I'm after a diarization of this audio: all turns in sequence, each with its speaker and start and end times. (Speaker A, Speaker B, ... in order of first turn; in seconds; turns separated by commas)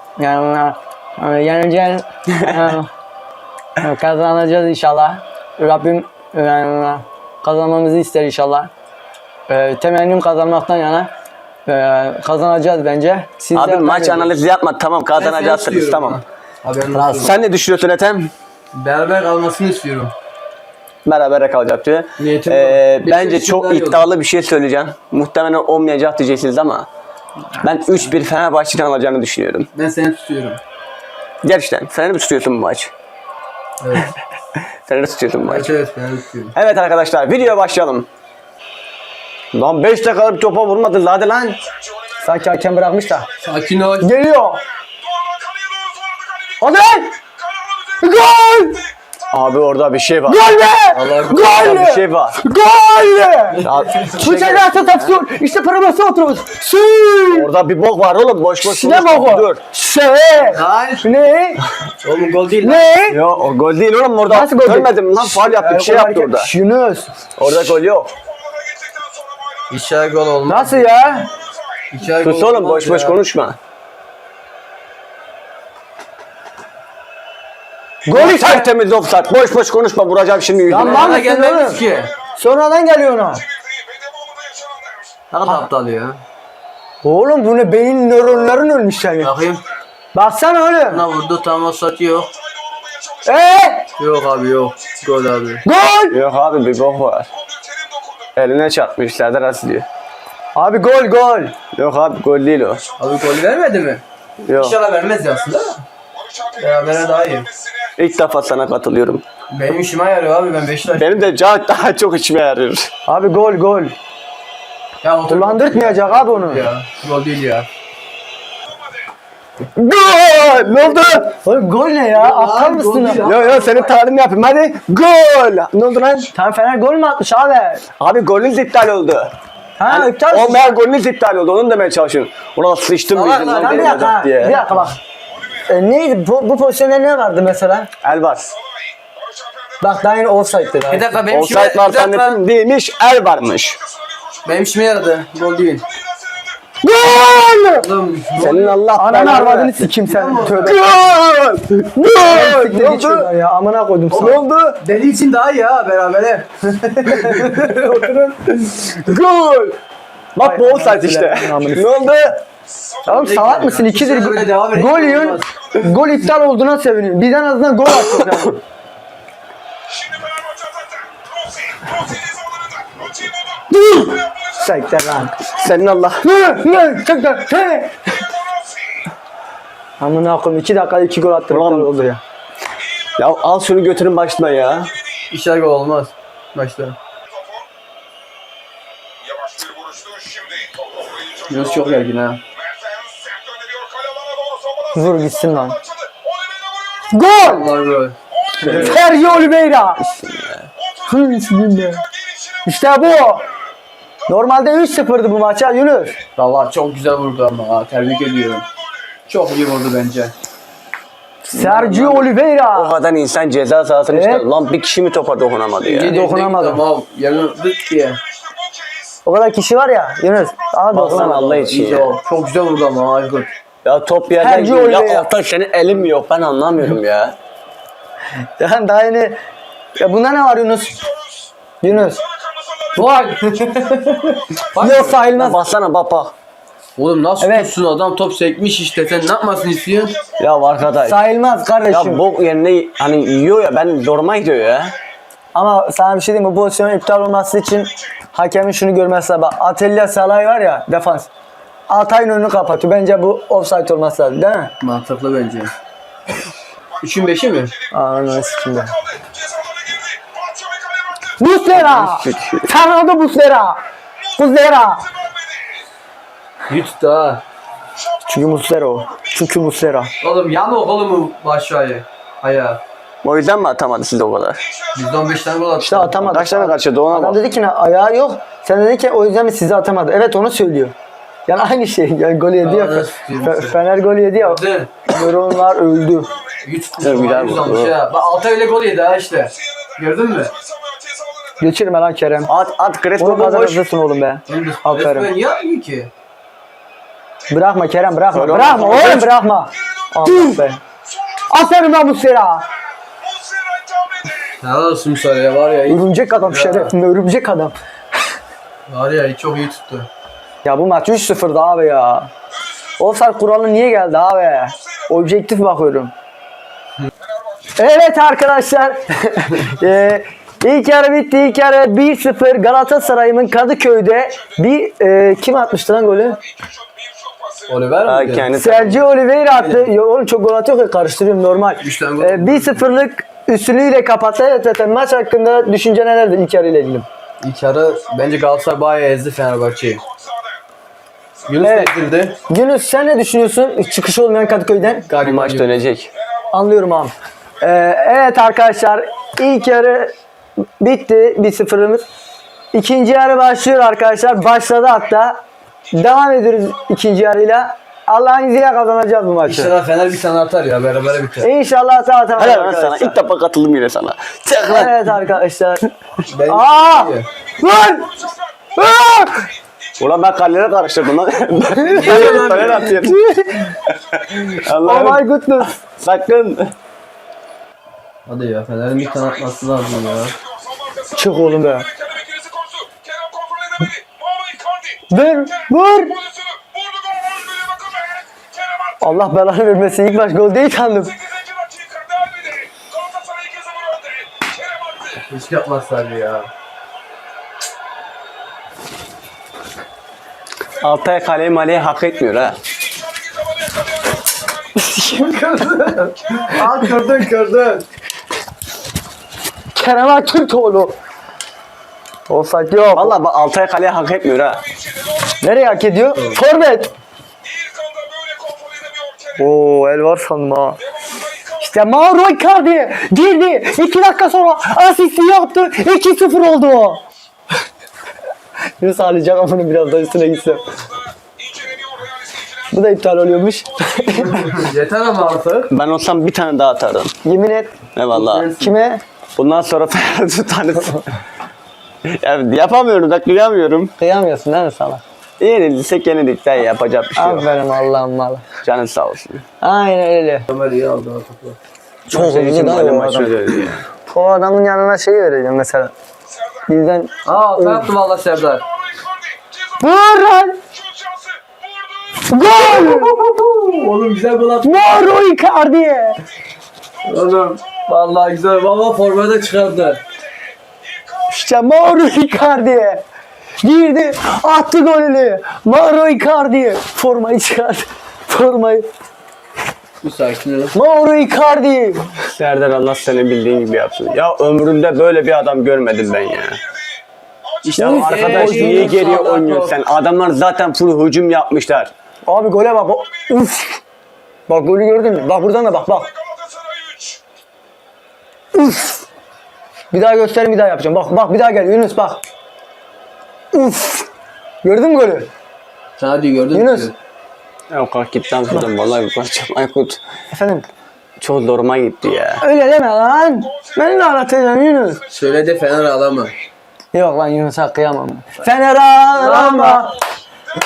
Speaker A: 0.2-2.9, Speaker A: 3.8-8.7, Speaker A: 9.5-11.1, Speaker A: 11.7-14.3, Speaker B: 13.5-16.2, Speaker C: 15.2-17.4, Speaker A: 16.9-17.3, Speaker B: 17.2-18.3, Speaker C: 18.7-20.1, Speaker B: 21.1-26.9, Speaker C: 22.2-24.1, Speaker B: 27.6-29.7, Speaker C: 29.7-30.6, Speaker B: 31.4-32.9, Speaker C: 33.8-34.1, Speaker B: 34.9-35.7, Speaker C: 35.4-36.5, Speaker B: 36.5-38.1, Speaker B: 39.5-41.6, Speaker A: 42.2-43.3, Speaker C: 43.4-44.1, Speaker A: 44.0-44.6, Speaker A: 46.6-47.1, Speaker A: 48.0-48.8, Speaker B: 49.3-50.5, Speaker A: 50.3-57.5, Speaker C: 50.9-51.8, Speaker B: 51.4-52.4, Speaker B: 53.6-55.0, Speaker C: 53.8-54.3, Speaker B: 57.3-59.6, Speaker A: 58.6-61.6, Speaker C: 60.4-61.1, Speaker C: 62.0-62.9, Speaker A: 62.6-63.2, Speaker B: 63.1-66.5, Speaker A: 64.3-67.1, Speaker B: 67.4-68.1, Speaker C: 69.7-70.9, Speaker A: 70.5-71.3, Speaker C: 71.9-73.2, Speaker B: 72.1-73.6, Speaker A: 78.1-78.7, Speaker B: 78.1-81.2, Speaker A: 80.7-81.8, Speaker C: 80.7-82.1, Speaker A: 82.3-83.4, Speaker C: 85.3-86.2, Speaker A: 87.0-89.3, Speaker C: 89.2-89.6, Speaker A: 90.1-91.0, Speaker C: 90.9-92.3, Speaker A: 93.2-93.9, Speaker C: 94.0-95.6, Speaker A: 95.7-96.2, Speaker B: 96.1-97.3, Speaker B: 98.4-99.9, Speaker A: 100.5-101.5, Speaker B: 101.8-102.8, Speaker C: 103.0-104.0, Speaker B: 104.5-104.8, Speaker C: 104.6-105.8, Speaker C: 106.5-107.5, Speaker B: 108.0-109.2, Speaker C: 109.5-111.3, Speaker B: 111.0-112.9, Speaker A: 113.1-114.0, Speaker C: 115.0-117.7, Speaker A: 115.3-116.7, Speaker B: 119.8-121.3, Speaker A: 120.6-123.2, Speaker C: 122.1-123.9, Speaker B: 123.2-126.3, Speaker A: 126.3-127.8, Speaker B: 128.0-129.3, Speaker A: 129.8-130.8, Speaker B: 129.9-134.7, Speaker C: 133.1-134.2, Speaker A: 133.5-135.0, Speaker A: 135.7-137.9, Speaker B: 138.0-138.5, Speaker A: 139.8-141.1, Speaker C: 140.9-142.4, Speaker B: 141.3-143.8, Speaker C: 144.4-145.9, Speaker A: 146.8-147.9, Speaker C: 147.8-150.9, Speaker B: 148.4-149.9, Speaker A: 149.0-150.8, Speaker B: 150.6-153.3, Speaker A: 152.2-154.5, Speaker C: 154.1-158.2, Speaker B: 154.2-154.8, Speaker B: 158.0-159.8, Speaker B: 160.3-162.4, Speaker A: 160.4-161.9, Speaker C: 163.0-165.5, Speaker A: 163.1-168.6, Speaker A: 174.5-175.3, Speaker B: 175.5-176.2, Speaker A: 176.2-177.9, Speaker A: 180.0-182.2, Speaker B: 181.5-181.9, Speaker B: 183.2-184.9, Speaker C: 185.3-187.0, Speaker C: 191.5-192.4, Speaker A: 194.9-195.8, Speaker A: 197.1-197.7, Speaker C: 197.4-199.0, Speaker A: 198.7-200.0, Speaker B: 200.1-200.7, Speaker A: 201.1-202.0, Speaker A: 202.7-203.4, Speaker A: 204.3-206.2, Speaker C: 206.4-208.7, Speaker C: 209.3-210.3, Speaker A: 211.4-212.9, Speaker C: 211.6-212.2, Speaker B: 211.7-216.2, Speaker A: 214.1-214.5, Speaker C: 215.8-218.2, Speaker A: 216.1-216.8, Speaker A: 219.3-221.4, Speaker B: 220.9-222.2, Speaker C: 220.9-223.5, Speaker B: 223.8-227.4, Speaker A: 224.4-225.3, Speaker A: 228.6-229.4, Speaker A: 230.0-231.0, Speaker A: 231.8-232.2, Speaker C: 232.9-235.2, Speaker A: 234.8-235.6, Speaker B: 235.3-236.3, Speaker C: 237.0-240.2, Speaker A: 237.4-237.7, Speaker B: 240.4-241.2, Speaker A: 241.0-242.2, Speaker B: 241.9-244.9, Speaker A: 245.5-251.3, Speaker A: 251.9-254.7, Speaker C: 254.8-255.7, Speaker C: 257.0-257.7, Speaker A: 257.9-259.0, Speaker A: 261.4-263.8, Speaker B: 261.7-262.7, Speaker A: 264.4-265.1, Speaker C: 266.7-267.4, Speaker A: 268.3-270.1, Speaker C: 270.2-272.8, Speaker B: 273.2-274.6, Speaker C: 274.9-276.2, Speaker A: 275.8-280.9, Speaker B: 276.2-277.4, Speaker A: 281.5-286.3, Speaker C: 282.6-283.8, Speaker C: 284.3-284.9, Speaker C: 286.6-290.5, Speaker B: 287.0-287.9, Speaker A: 291.6-292.5, Speaker B: 292.5-293.8, Speaker A: 293.2-295.3, Speaker C: 294.5-296.1, Speaker A: 297.5-300.8, Speaker B: 298.3-299.3, Speaker A: 301.5-302.6, Speaker C: 304.6-306.9, Speaker A: 305.9-307.8, Speaker C: 308.9-310.1, Speaker A: 310.6-312.3, Speaker A: 313.0-316.1, Speaker A: 317.8-326.4, Speaker C: 327.7-328.5, Speaker B: 328.1-329.1, Speaker A: 328.5-337.1, Speaker C: 329.6-329.9, Speaker C: 331.8-332.8, Speaker C: 337.4-340.0, Speaker C: 341.5-342.4, Speaker A: 341.6-341.9, Speaker A: 342.5-345.1, Speaker C: 345.1-345.8, Speaker B: 345.2-346.1, Speaker A: 346.5-350.1, Speaker A: 350.8-352.0, Speaker A: 352.7-355.4, Speaker A: 355.9-359.7, Speaker C: 359.5-361.5, Speaker A: 361.4-363.2, Speaker B: 362.4-364.9, Speaker A: 364.7-365.9, Speaker C: 366.3-367.3, Speaker A: 366.5-368.1, Speaker A: 368.8-369.5, Speaker B: 370.0-373.3, Speaker C: 371.9-372.9, Speaker A: 372.0-373.7, Speaker B: 374.1-375.2, Speaker A: 374.8-375.7, Speaker B: 375.8-376.7, Speaker C: 378.3-380.4, Speaker A: 381.1-381.9, Speaker A: 385.1-386.2, Speaker A: 389.0-391.2, Speaker C: 395.3-396.5, Speaker B: 400.8-402.6, Speaker A: 404.8-406.7, Speaker C: 406.4-407.9, Speaker A: 409.8-410.9, Speaker A: 412.3-413.1, Speaker B: 412.9-414.6, Speaker A: 415.4-416.9, Speaker A: 419.4-420.8, Speaker A: 421.6-427.0, Speaker A: 428.8-430.6, Speaker A: 432.7-434.5, Speaker C: 434.4-435.7, Speaker B: 435.7-437.1, Speaker A: 437.2-437.7, Speaker B: 438.0-438.5, Speaker C: 438.1-438.7, Speaker A: 438.6-439.0, Speaker B: 439.4-441.2, Speaker B: 442.1-443.9, Speaker A: 444.0-445.0, Speaker B: 445.4-447.5, Speaker A: 447.2-448.4, Speaker B: 448.6-449.4, Speaker A: 449.6-450.4, Speaker C: 450.5-451.6, Speaker A: 452.1-453.4, Speaker B: 452.1-453.9, Speaker A: 454.1-455.9, Speaker A: 456.7-457.9, Speaker C: 457.2-458.6, Speaker A: 459.8-460.6, Speaker A: 462.2-463.1, Speaker C: 462.6-465.1, Speaker A: 464.6-466.2, Speaker C: 467.1-470.0, Speaker A: 471.3-473.0, Speaker A: 473.6-478.9, Speaker C: 480.0-480.7, Speaker A: 480.7-482.1, Speaker B: 482.4-486.6, Speaker C: 487.6-489.8, Speaker A: 487.8-489.2, Speaker B: 487.8-491.9, Speaker A: 492.3-493.8, Speaker A: 494.5-496.1, Speaker A: 498.5-499.0, Speaker A: 499.9-502.2, Speaker A: 503.5-504.1, Speaker A: 504.6-505.3, Speaker C: 506.0-506.9, Speaker A: 506.5-506.9, Speaker B: 507.7-510.0, Speaker A: 510.3-510.7, Speaker B: 511.2-512.4, Speaker A: 512.4-515.0, Speaker C: 515.1-516.3, Speaker A: 516.9-519.9, Speaker C: 519.1-519.9